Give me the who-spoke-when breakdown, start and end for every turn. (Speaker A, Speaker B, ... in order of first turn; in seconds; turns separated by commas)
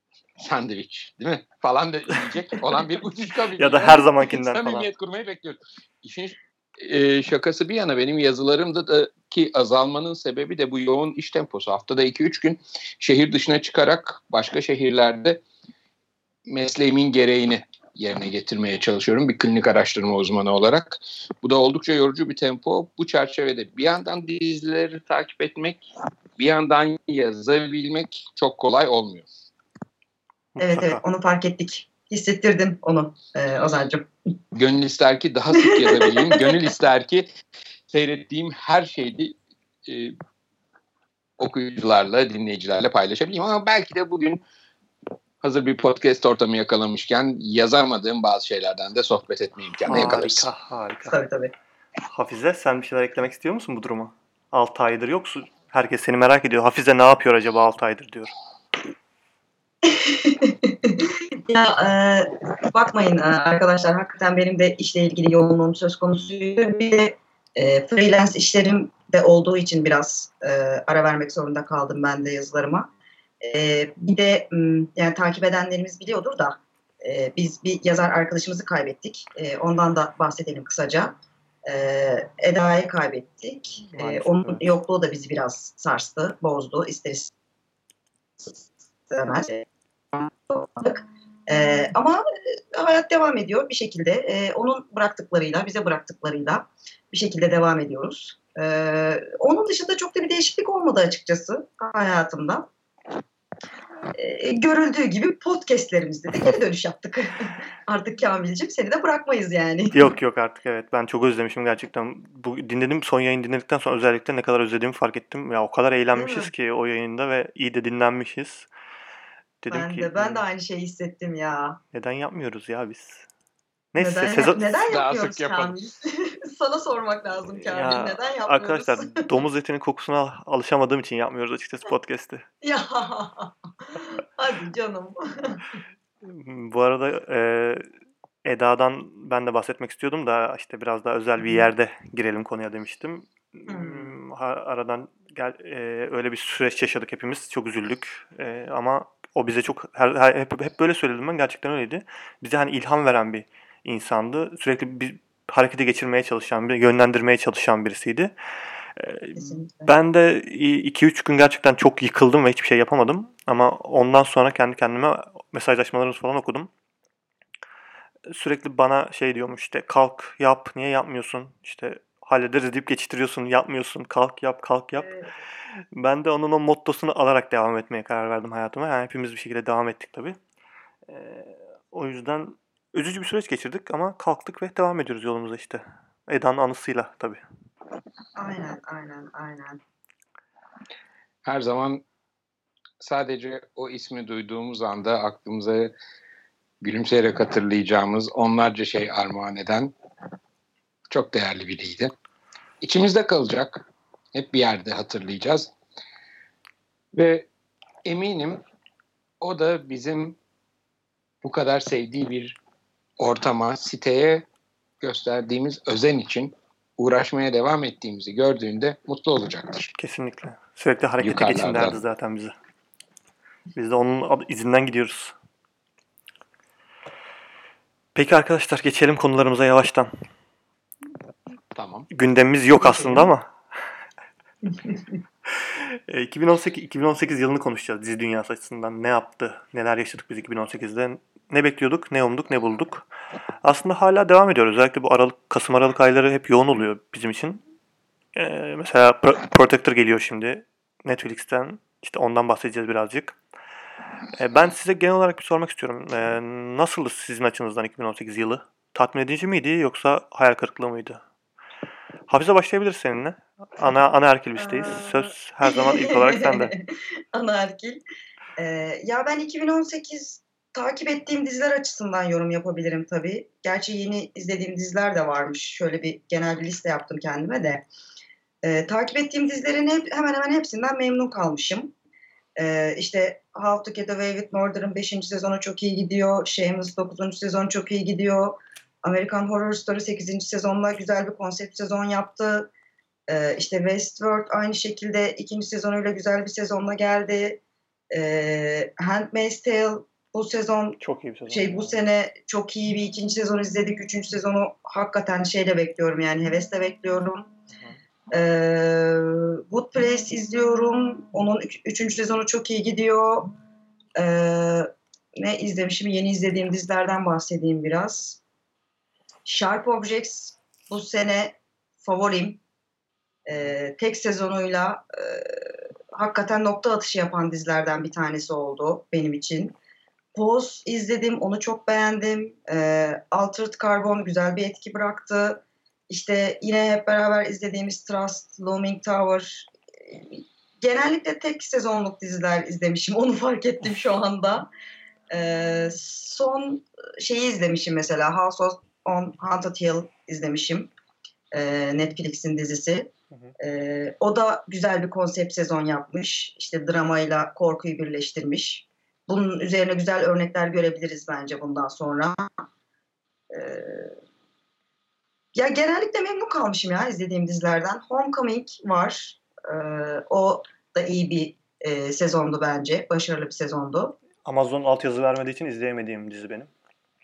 Speaker A: 0.4-15.4, Speaker B: 3.6-4.9, Speaker A: 16.4-29.3, Speaker B: 30.6-31.0, Speaker C: 30.6-34.1, Speaker A: 34.5-37.3, Speaker C: 35.5-36.6, Speaker A: 37.9-39.3, Speaker A: 39.9-40.1, Speaker A: 41.4-44.4, Speaker A: 45.4-50.4, Speaker B: 49.9-51.2, Speaker C: 51.1-51.5, Speaker B: 52.1-58.3, Speaker C: 59.8-72.9, Speaker C: 73.4-87.3, Speaker B: 83.9-84.7, Speaker C: 88.4-102.7, Speaker C: 104.1-110.0, Speaker B: 109.9-118.7, Speaker C: 116.1-116.5, Speaker B: 119.6-120.4, Speaker C: 119.7-121.8, Speaker B: 121.9-123.2, Speaker B: 123.9-124.8, Speaker C: 124.0-129.3, Speaker A: 124.9-125.7, Speaker B: 127.7-132.4, Speaker C: 132.6-135.7, Speaker B: 136.2-137.9, Speaker B: 138.4-158.3, Speaker C: 143.7-144.1, Speaker B: 159.0-166.7, Speaker C: 159.3-159.9, Speaker B: 168.3-175.1, Speaker C: 175.0-175.3, Speaker B: 175.9-180.4, Speaker B: 181.1-187.4, Speaker C: 188.4-189.8, Speaker A: 191.4-192.0, Speaker A: 193.0-195.9, Speaker A: 196.8-199.9, Speaker A: 201.1-202.1, Speaker A: 202.8-205.7, Speaker A: 207.1-207.5, Speaker A: 208.0-208.6, Speaker A: 209.4-210.4, Speaker A: 211.4-212.6, Speaker A: 213.2-214.5, Speaker A: 215.0-219.9, Speaker B: 220.0-222.5, Speaker A: 221.2-222.0, Speaker B: 223.8-225.3, Speaker B: 228.1-230.1, Speaker A: 231.7-232.1, Speaker B: 232.1-233.5, Speaker C: 232.9-233.2, Speaker B: 235.8-243.1, Speaker B: 243.6-247.6, Speaker B: 248.3-253.4, Speaker B: 254.4-261.2, Speaker B: 262.3-266.8, Speaker C: 264.6-268.0, Speaker C: 268.6-277.9, Speaker C: 278.6-281.9, Speaker C: 282.6-292.7, Speaker C: 293.3-307.5, Speaker B: 301.0-302.0, Speaker C: 308.3-313.5, Speaker C: 314.1-318.4, Speaker C: 319.4-322.6, Speaker C: 323.5-329.8, Speaker C: 330.4-344.7, Speaker C: 345.3-350.9, Speaker C: 351.5-362.5, Speaker C: 363.5-364.1, Speaker C: 365.5-374.2, Speaker B: 374.4-376.7